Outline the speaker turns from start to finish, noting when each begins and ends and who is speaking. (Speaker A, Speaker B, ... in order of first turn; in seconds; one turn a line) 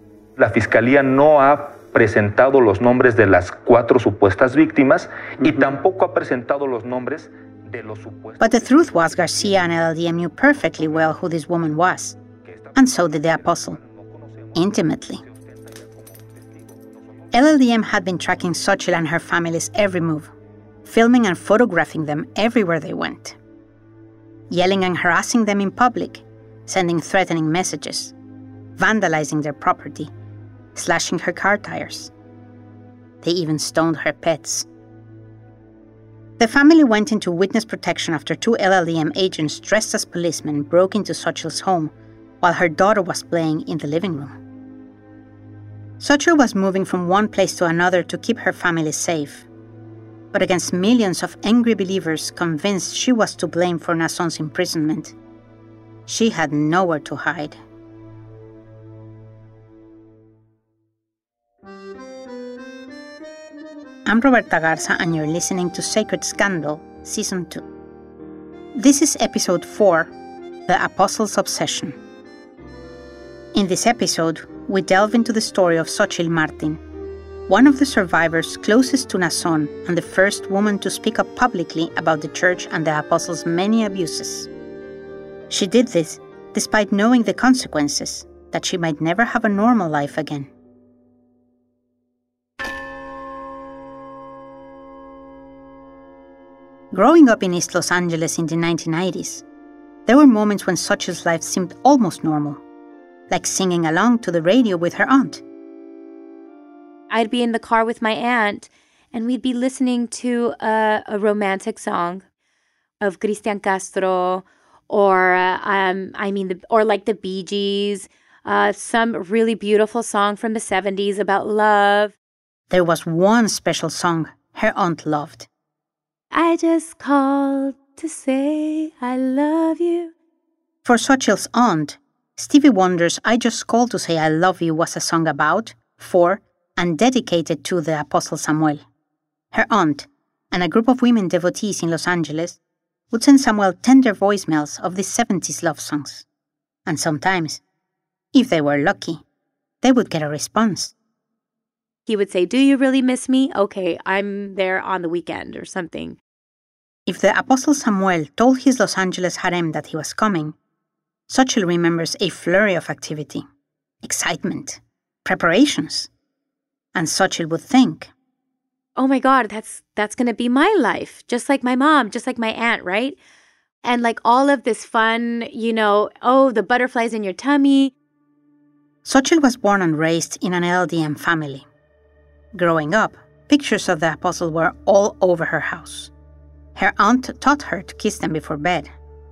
Speaker A: 0.4-8.4
Speaker B: 8.4-12.2
Speaker B: 12.7-13.8
Speaker B: 14.5-15.2
Speaker B: 17.3-20.3
Speaker B: 20.8-23.4
Speaker B: 24.5-28.1
Speaker B: 28.8-30.1
Speaker B: 30.7-32.1
Speaker B: 33.2-34.6
Speaker B: 36.4-44.3
Speaker B: 46.0-49.5
Speaker B: 50.3-55.1
Speaker B: 56.1-57.6
Speaker B: 64.0-67.6
Speaker B: 68.7-70.1
Speaker B: 70.7-72.0
Speaker B: 73.5-76.8
Speaker B: 77.5-84.5
Speaker B: 85.5-90.5
Speaker B: 96.9-99.4
Speaker B: 100.1-102.6
Speaker B: 103.3-105.4
Speaker C: 107.1-112.2
Speaker C: 113.0-122.1
Speaker B: 122.7-125.5
Speaker C: 126.3-130.1
Speaker B: 130.8-138.8
Speaker B: 139.5-142.6
Speaker B: 143.1-146.2
Speaker B: 146.8-147.6
Speaker B: 148.3-149.2
Speaker B: 149.8-150.9
Speaker C: 152.1-156.2
Speaker B: 157.1-160.6
Speaker B: 161.3-163.4
Speaker B: 164.0-166.1
Speaker B: 166.9-168.1
Speaker C: 168.9-173.2
Speaker C: 173.8-177.9
Speaker B: 179.0-181.7
Speaker B: 182.5-186.1
Speaker B: 186.8-188.9